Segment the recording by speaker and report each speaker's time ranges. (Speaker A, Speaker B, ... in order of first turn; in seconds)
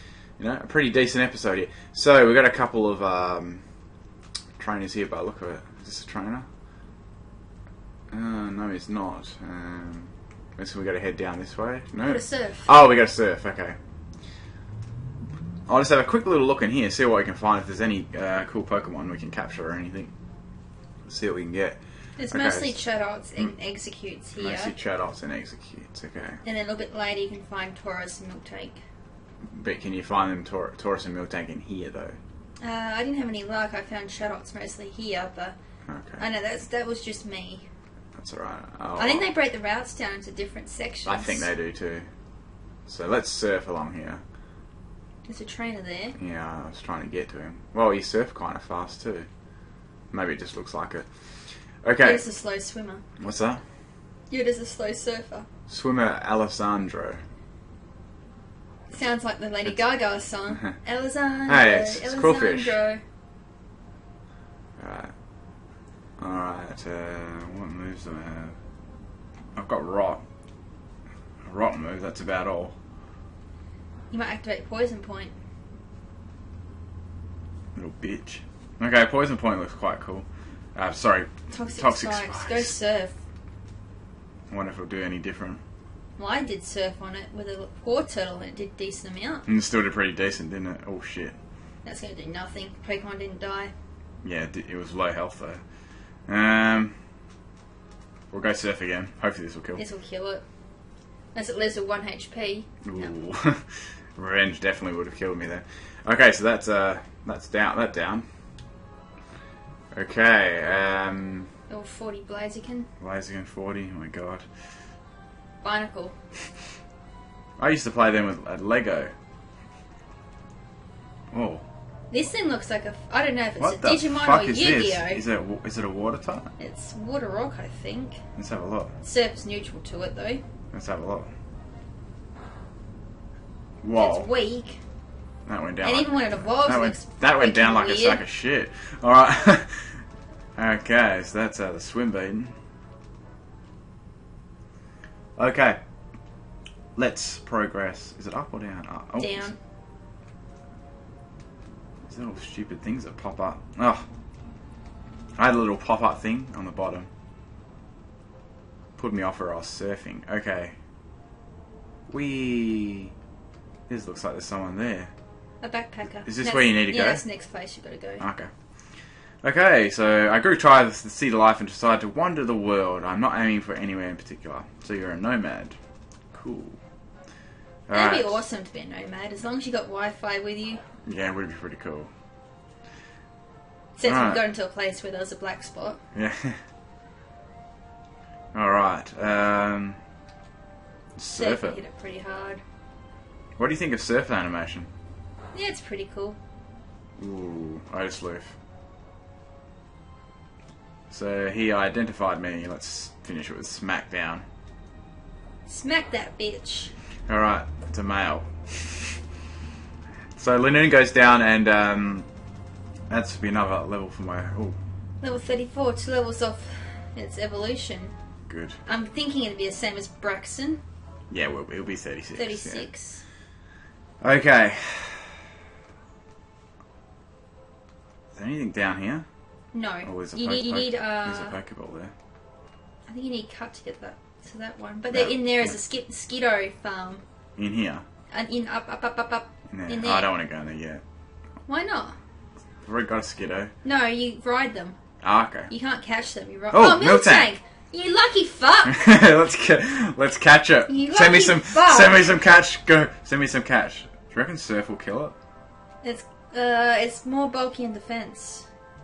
Speaker A: 0.4-3.6, 4.6-6.5, 8.1-13.8, 15.7-20.1, 21.1-21.8, 22.3-22.8, 24.4-26.4, 29.5-32.2, 35.9-36.2, 38.2-39.2, 41.0-42.1, 42.9-44.2, 46.2-49.3, 50.1-51.1, 51.8-52.2, 53.2-53.6, 55.7-57.2, 61.5-62.8, 64.8-65.1, 66.2-68.6, 69.6-70.2, 71.5-72.8, 77.8-82.8, 84.5-85.6, 89.5-91.4, 94.2-95.6, 96.3-97.0, 98.3-99.8, 102.8-103.6, 104.2-108.2, 109.9-111.5, 113.0-114.5, 117.6-119.1, 121.3-121.6, 123.6-126.5, 128.3-128.9, 130.7-131.3, 133.8-134.3, 135.4-140.0, 140.6-142.5, 145.4-145.8, 146.9-149.5, 152.1-154.0, 155.4-157.1, 159.0-160.8, 162.1-163.1, 163.9-165.1, 166.2-167.2, 168.2-168.5, 169.4-175.8, 176.3-176.8, 177.9-178.4, 181.0-182.1, 184.0-184.4, 186.1-186.6, 188.5-190.0, 191.2-191.8, 193.6-194.9, 197.2-198.5, 201.1-204.4, 207.3-209.2, 210.4-212.3, 213.1-214.8, 218.5-218.8, 221.3-222.8, 224.2-225.3, 228.3-229.2, 230.0-232.1, 235.1-235.8, 237.6-238.0, 239.7-241.0, 242.8-243.7, 245.2-245.7, 246.7-247.5, 248.8-255.3
Speaker B: 12.0-12.7, 22.2-24.7, 26.4-28.8, 32.6-35.5, 36.2-37.7, 39.0-41.5, 45.2-46.2, 52.0-53.0, 54.3-55.5, 58.9-63.0, 74.1-75.3, 81.5-83.1, 86.2-89.5, 91.8-93.7, 99.8-100.4, 101.3-103.1, 111.7-112.9, 115.6-116.1, 122.1-125.2, 126.6-128.2, 129.0-130.4, 133.9-134.8, 135.8-138.2, 149.2-149.6, 165.6-168.2, 177.9-180.8, 184.0-186.0, 191.3-192.6, 195.5-196.4, 205.7-206.9, 215.2-218.1, 218.8-220.8, 222.3-223.2, 229.7-231.6, 233.1-237.2, 238.3-240.3, 241.7-242.2, 243.8-245.0, 245.7-249.0, 250.9-252.4, 256.0-258.7